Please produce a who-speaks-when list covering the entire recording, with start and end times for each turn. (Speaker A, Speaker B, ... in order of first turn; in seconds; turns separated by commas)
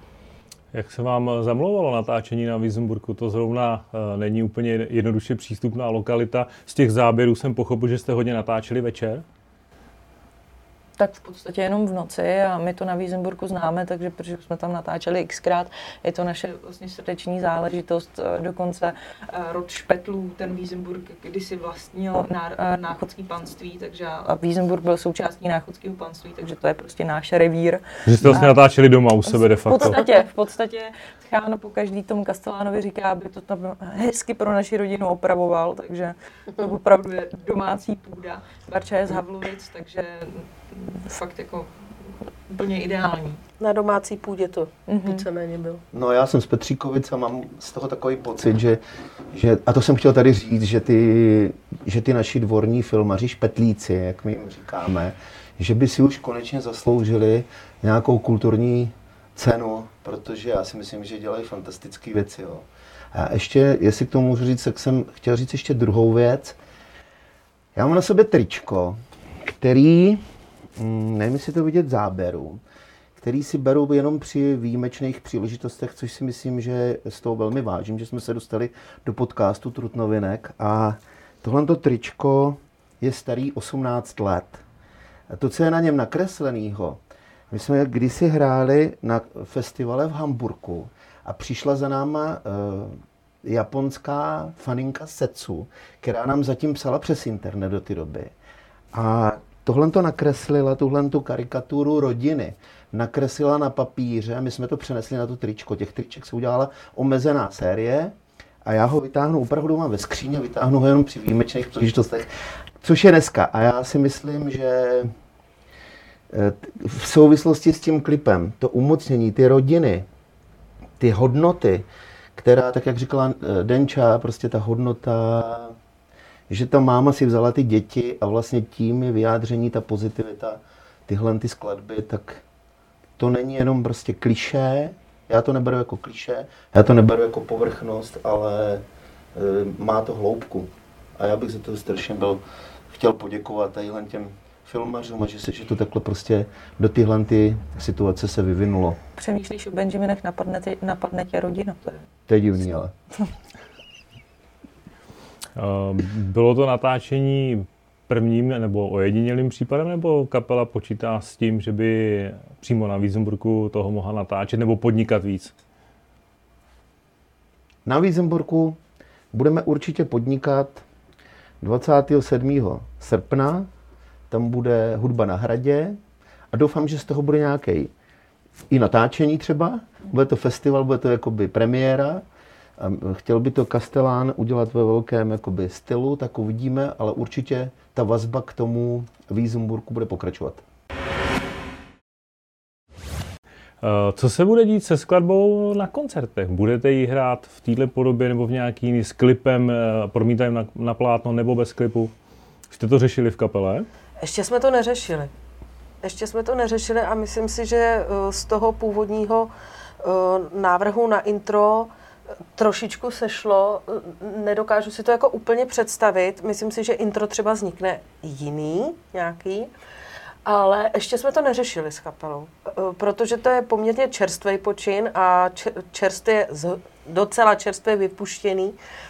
Speaker A: 0.7-9.2, Speaker B: 11.0-28.6, Speaker A: 28.1-30.0, Speaker B: 29.3-43.4, Speaker C: 43.6-45.8, Speaker B: 44.9-45.2, Speaker D: 45.9-48.8, Speaker D: 49.3-66.6, Speaker D: 67.7-70.2, Speaker D: 70.8-72.6, Speaker D: 73.2-84.6, Speaker D: 85.3-98.3, Speaker D: 98.9-115.1, Speaker D: 116.3-120.0, Speaker D: 121.0-121.8, Speaker D: 122.3-125.7, Speaker D: 126.5-132.4, Speaker D: 133.2-149.0, Speaker B: 149.2-152.0, Speaker D: 152.3-152.9, Speaker A: 155.6-165.5, Speaker D: 167.8-168.8, Speaker D: 169.3-170.8, Speaker D: 171.6-173.7, Speaker D: 174.3-176.0, Speaker D: 176.5-177.9, Speaker D: 178.7-182.2, Speaker D: 182.8-190.6, Speaker A: 193.8-202.1, Speaker A: 202.7-203.9, Speaker C: 204.2-205.3, Speaker C: 206.0-211.9, Speaker C: 212.5-219.7, Speaker C: 220.4-228.8